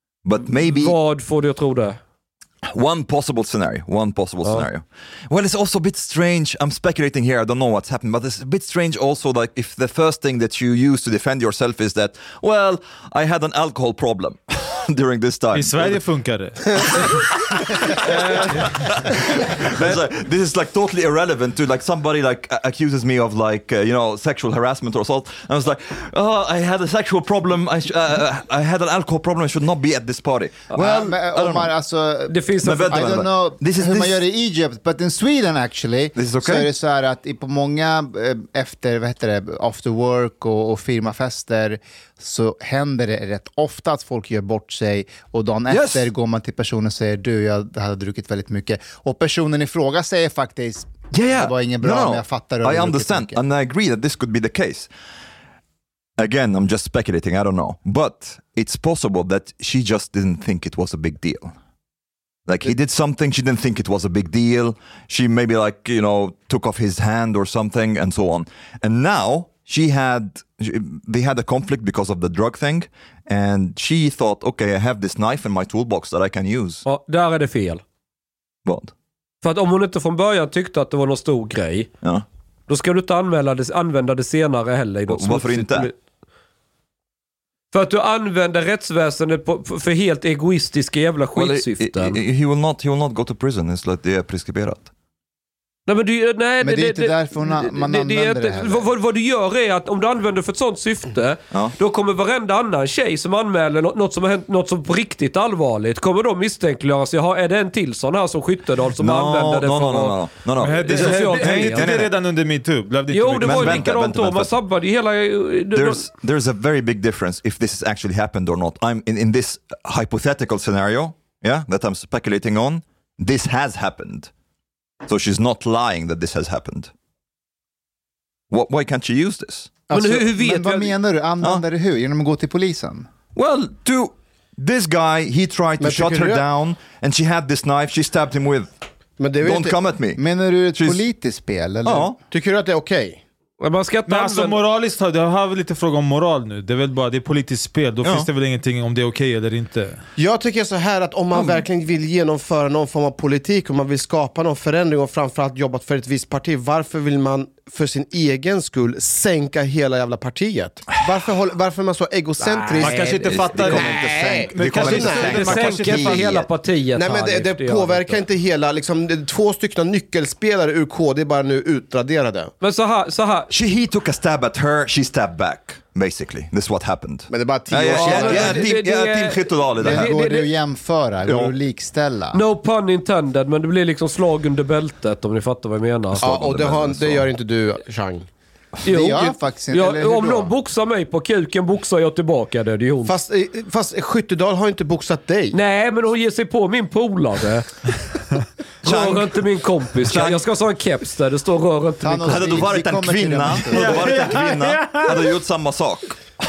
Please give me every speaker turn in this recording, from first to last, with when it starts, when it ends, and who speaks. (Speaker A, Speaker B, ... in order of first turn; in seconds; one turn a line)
Speaker A: 0.2-1.0
Speaker B: 0.5-2.0
Speaker A: 2.6-16.0
Speaker C: 15.5-18.8
Speaker A: 16.7-31.7
Speaker B: 30.7-31.1
Speaker D: 30.8-53.4
Speaker B: 32.3-33.2
Speaker A: 32.6-34.2
Speaker A: 36.1-36.7
Speaker A: 45.7-46.1
Speaker A: 51.1-54.9
Speaker A: 56.2-61.5
Speaker A: 62.5-76.8
Speaker B: 76.8-77.8
Speaker A: 78.6-78.9
Speaker B: 79.4-81.9
Speaker B: 82.7-85.9
Speaker A: 85.1-85.9
Speaker B: 87.7-92.2
Speaker A: 91.3-94.9
Speaker B: 95.9-111.9
Speaker D: 96.6-98.8
Speaker A: 109.0-112.1
Speaker C: 110.6-113.9
Speaker B: 113.1-116.1
Speaker A: 113.4-114.5
Speaker A: 115.7-124.3
Speaker A: 125.0-126.9
Speaker A: 128.5-129.8
Speaker B: 129.9-130.9
Speaker D: 129.9-133.1
Speaker A: 133.3-138.7
Speaker E: 135.8-136.4
Speaker E: 139.2-139.8
Speaker A: 139.4-140.2
Speaker D: 140.2-142.1
Speaker A: 140.8-141.0
Speaker A: 141.8-142.2
Speaker E: 142.3-143.2
Speaker B: 143.6-144.6
Speaker C: 144.1-150.0
Speaker A: 148.0-148.3
Speaker E: 150.2-166.4
Speaker A: 151.3-151.6
Speaker B: 162.4-163.3
Speaker C: 162.8-166.3
Speaker A: 163.2-166.2
Speaker B: 164.8-168.2
Speaker E: 166.9-172.5
Speaker B: 172.6-173.5
Speaker A: 173.5-180.2
Speaker E: 177.3-178.7
Speaker B: 177.9-180.5
Speaker D: 179.8-182.4
Speaker A: 181.2-181.5
Speaker B: 182.3-186.2
Speaker A: 186.2-187.3
Speaker E: 186.2-188.3
Speaker B: 188.8-193.1
Speaker D: 188.8-190.5
Speaker E: 193.0-195.6
Speaker B: 195.5-197.7
Speaker A: 198.8-199.3
Speaker B: 198.8-202.7
Speaker A: 200.0-200.4
Speaker D: 202.0-204.2
Speaker A: 202.3-206.2
Speaker C: 203.7-205.2